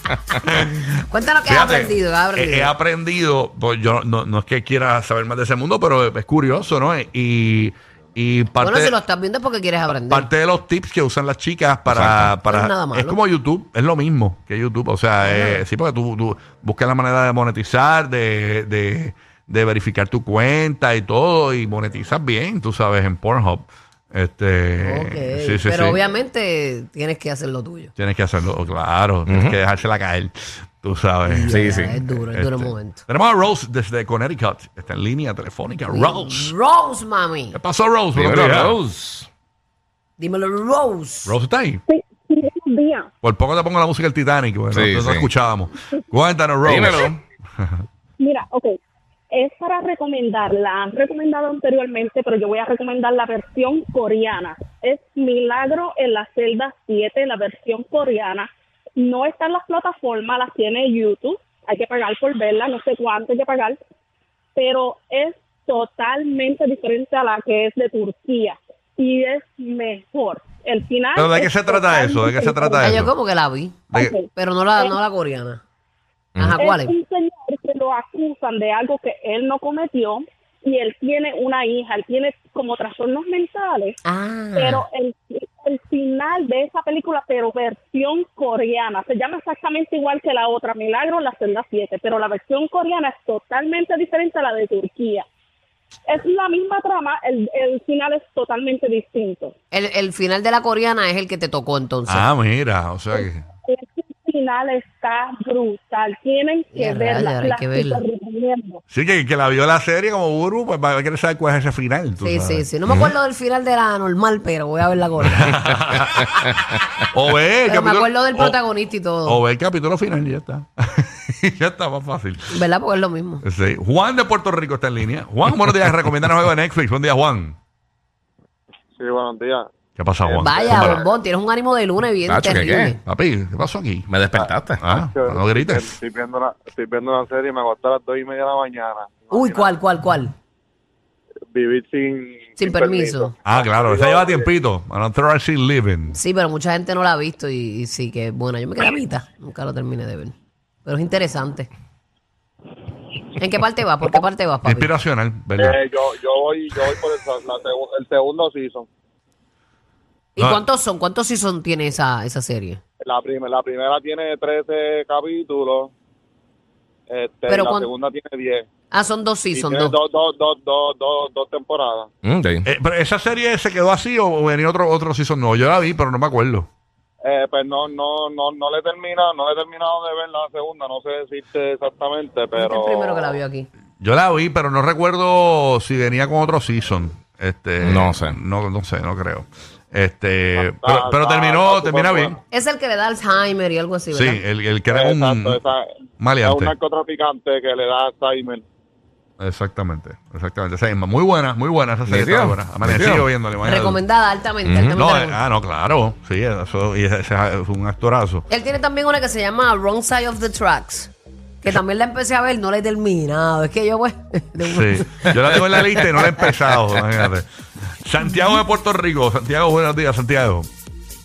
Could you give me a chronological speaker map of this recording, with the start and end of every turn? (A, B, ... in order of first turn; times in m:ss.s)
0:00.4-0:09.0 A
0:01.1-0:02.7 B
0:08.6-0:10.3 B
0:10.1-0:26.0 A
0:11.9-0:12.3 C
0:12.5-0:13.2 B
0:15.3-0:15.6 B
0:24.8-0:27.9 B
0:28.0-0:36.5 A
0:29.3-0:29.6 C
0:31.3-0:33.0 B
0:31.5-0:32.0 C
0:35.9-0:37.6 B
0:37.5-0:38.8 A
0:38.2-0:39.3 C
0:40.2-0:41.3 B
0:41.3-0:41.8 A
0:41.9-0:43.1 D
0:43.2-0:47.8 A
0:44.7-0:45.3 C
0:46.6-0:47.2 C
0:48.2-0:48.8 D
0:49.3-1:03.8 D
1:04.6-1:12.9 D
1:11.2-1:13.1 A
1:12.8-1:15.6 B
1:13.9-1:15.0 D
1:16.4-1:16.9 B
1:16.6-1:24.0 D
1:24.0-1:24.8 B
1:24.6-1:35.3 D
1:36.1-1:39.5 D
1:39.7-1:42.3 B
1:42.1-1:43.4 A
1:43.2-1:48.8 D
1:46.7-1:48.0 B
1:48.9-1:52.7 A
1:52.2-1:55.6 B
1:55.2-1:56.2 A
1:57.1-1:58.6 A
1:57.7-1:59.4 B
1:59.3-2:02.6 A
2:02.5-2:03.4 B
2:03.4-2:07.6 A
2:09.0-2:09.7 E
2:10.0-2:11.0 A
2:10.2-2:11.0 E
2:10.4-2:13.0 B
2:12.3-2:13.0 C
2:13.1-2:14.1 A
2:14.1-2:14.8 C
2:14.8-2:16.0 A
2:14.9-2:19.7 E
2:19.3-2:20.3 B
2:21.5-2:24.4 E
2:22.6-2:23.3 B
2:23.4-2:26.2 A
2:26.1-2:30.3 B
2:30.8-2:31.7 B
2:33.4-2:34.9 B
2:34.6-2:35.8 A
2:35.6-2:38.9 E
2:40.4-2:42.8 B
2:40.4-2:40.6 A
2:43.0-2:45.9 E
2:47.1-2:48.7 E
2:47.5-2:47.9 B
2:48.9-2:50.0 B
2:49.5-2:52.1 E
2:52.2-2:52.7 C
2:52.7-2:56.7 A
2:57.2-3:03.4 E
3:02.6-3:03.7 B
3:04.0-3:12.4 A
3:07.8-3:08.4 C
3:10.6-3:12.4 E
3:12.5-3:14.4 B
3:14.1-3:15.6 A
3:14.9-3:15.8 E
3:16.2-3:16.8 A
3:16.4-3:18.6 E
3:19.4-3:24.0 A
3:22.1-3:23.2 C
3:23.6-3:25.4 B
3:24.6-3:25.0 C
3:25.0-3:28.5 A
3:28.5-3:36.5 B
3:34.6-3:37.5 A
3:38.0-3:40.7 A